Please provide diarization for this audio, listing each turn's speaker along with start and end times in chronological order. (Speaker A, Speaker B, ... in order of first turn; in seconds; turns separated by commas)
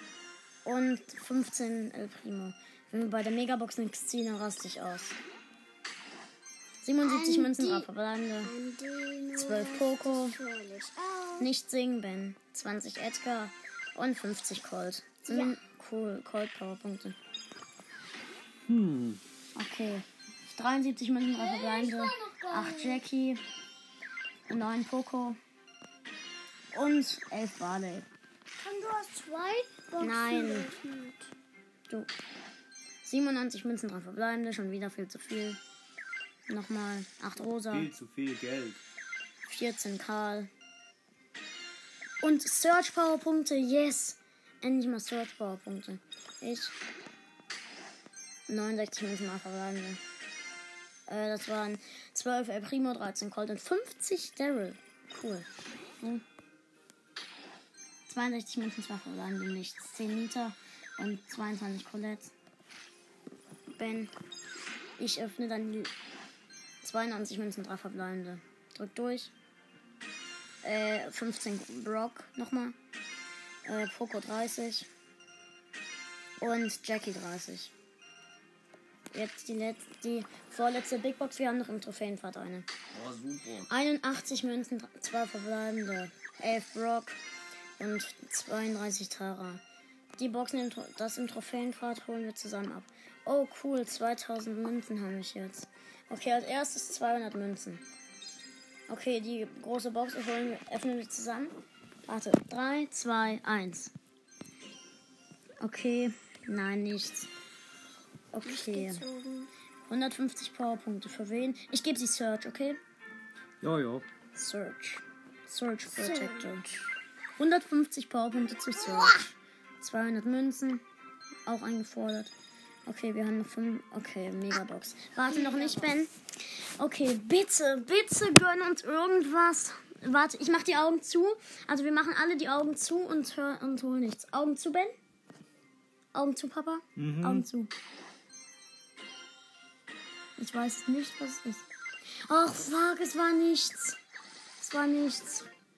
Speaker A: 0.6-5.2, Speaker A: 6.8-8.6, Speaker B: 7.0-7.9, Speaker B: 8.4-11.5, Speaker A: 9.4-10.4, Speaker A: 11.4-17.2, Speaker B: 15.3-15.6, Speaker C: 18.7-19.2, Speaker A: 19.6-23.4, Speaker B: 21.4-23.0, Speaker A: 24.5-25.4, Speaker A: 26.7-28.1, Speaker B: 28.6-31.3, Speaker A: 30.0-30.7, Speaker A: 33.0-35.6, Speaker A: 36.5-37.9, Speaker C: 37.7-38.8, Speaker A: 39.5-40.5, Speaker A: 42.2-46.8, Speaker A: 48.5-50.0, Speaker A: 51.1-55.5, Speaker A: 58.1-62.3, Speaker A: 63.7-64.1, Speaker A: 65.0-65.9, Speaker A: 66.8-69.3, Speaker A: 70.6-72.8, Speaker A: 73.6-74.9, Speaker A: 76.4-77.7, Speaker A: 79.1-82.7, Speaker C: 82.9-83.7, Speaker A: 83.7-87.2, Speaker A: 87.8-89.6, Speaker A: 90.2-97.8, Speaker A: 98.9-101.5, Speaker A: 102.1-103.9, Speaker A: 105.6-107.3, Speaker A: 108.3-109.0, Speaker B: 108.4-109.5, Speaker A: 109.9-112.8, Speaker C: 113.6-114.1, Speaker A: 114.3-116.6, Speaker B: 115.9-116.9, Speaker A: 117.4-119.3, Speaker B: 118.8-119.3, Speaker A: 119.8-120.8, Speaker A: 121.5-122.3, Speaker A: 122.9-135.0, Speaker B: 125.3-125.9, Speaker A: 136.1-137.7, Speaker C: 136.9-137.4, Speaker A: 140.4-144.0, Speaker A: 144.6-145.5